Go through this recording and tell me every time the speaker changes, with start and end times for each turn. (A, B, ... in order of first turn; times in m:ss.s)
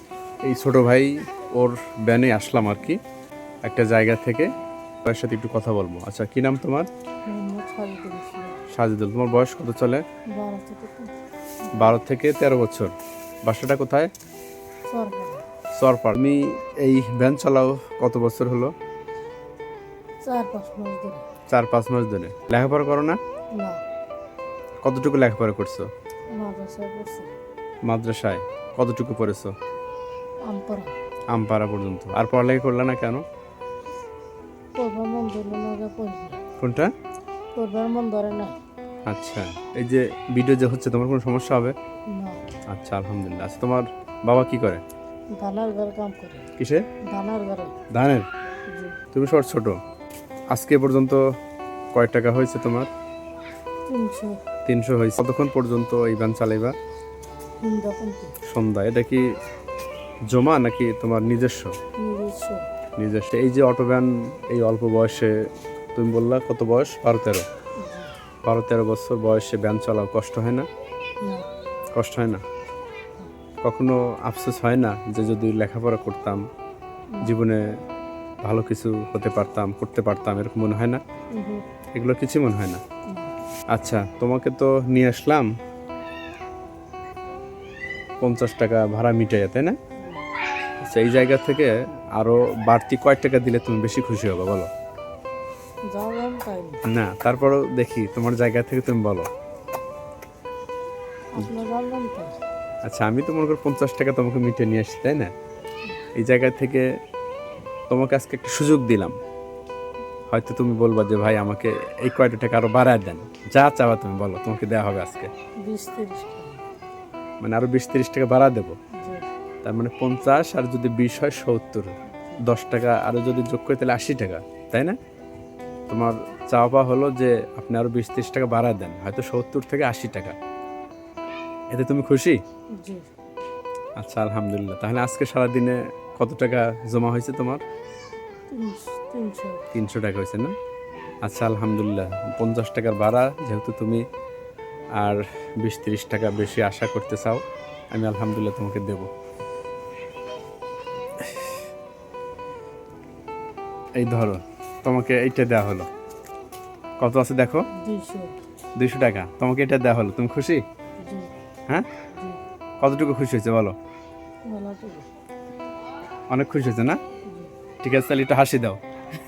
0:00.4-0:03.0 A
0:03.6-0:04.5 A
0:05.0-0:06.9 A
0:07.3-0:08.6 B
0:08.7-0:10.0 A
0:10.3-0:12.0 B
0:11.7-0:12.9 A
0:13.4-0:14.1 A
0:14.9-0:15.4 B
0:15.8-0:18.7 A
0:20.2-0:21.2 B
0:21.5-0:23.2 A
0:24.8-0:25.9 A
0:26.4-0:27.3 B
0:27.8-0:29.5 A
0:30.5-0:30.9 B
0:31.3-0:33.2 A
0:34.8-0:36.4 B
0:36.6-0:36.9 A
0:37.5-0:38.6 B
0:39.0-0:41.8 A
0:42.1-0:42.4 B
0:42.7-0:44.8 A
0:45.4-0:46.5 B
0:46.6-0:46.9 A
0:47.1-0:47.8 B
0:47.9-0:48.3 A
0:48.7-0:49.0 B
0:49.1-0:49.8 A
0:50.5-0:51.2 A
0:51.9-0:52.9 A
0:53.9-0:54.4 B
0:54.6-0:56.7 A
0:57.6-0:58.3 B
0:58.4-0:59.2 A
1:00.3-1:01.7 A
1:02.0-1:02.6 B
1:03.0-1:07.4 A
1:07.8-1:08.1 B
1:08.4-1:10.7 A
1:11.2-1:11.5 B
1:11.9-1:12.4 A
1:13.6-1:16.4 A
1:17.2-1:17.7 A
1:18.4-1:21.0 A
1:21.3-1:21.6 B
1:21.9-1:22.8 A
1:23.1-1:23.3 B
1:23.7-1:25.5 A
1:28.2-1:29.8 A
1:30.8-1:34.7 A
1:35.9-1:36.8 B
1:36.9-1:39.3 A
1:41.3-1:42.4 B
1:42.8-1:45.3 A
1:46.1-1:46.8 A
1:47.9-1:49.1 A
1:50.3-1:55.3 A
1:55.6-1:56.6 B
1:57.4-1:58.8 A
1:59.0-1:59.3 B
1:59.6-2:05.0 A
2:05.9-2:10.4 A
2:11.7-2:12.4 A
2:12.8-2:13.1 B
2:14.0-2:17.6 A
2:18.5-2:19.6 B
2:19.7-2:20.5 A
2:21.2-2:24.0 A
2:25.0-2:29.1 A
2:31.2-2:31.6 A
2:34.0-2:35.9 A
2:37.0-2:37.7 A
2:37.7-2:38.3 B
2:38.8-2:40.6 A
2:41.0-2:41.3 B
2:42.1-2:42.4 B
2:42.8-2:43.8 A
2:44.5-2:45.0 B
2:46.3-2:47.0 A
2:47.8-2:48.8 A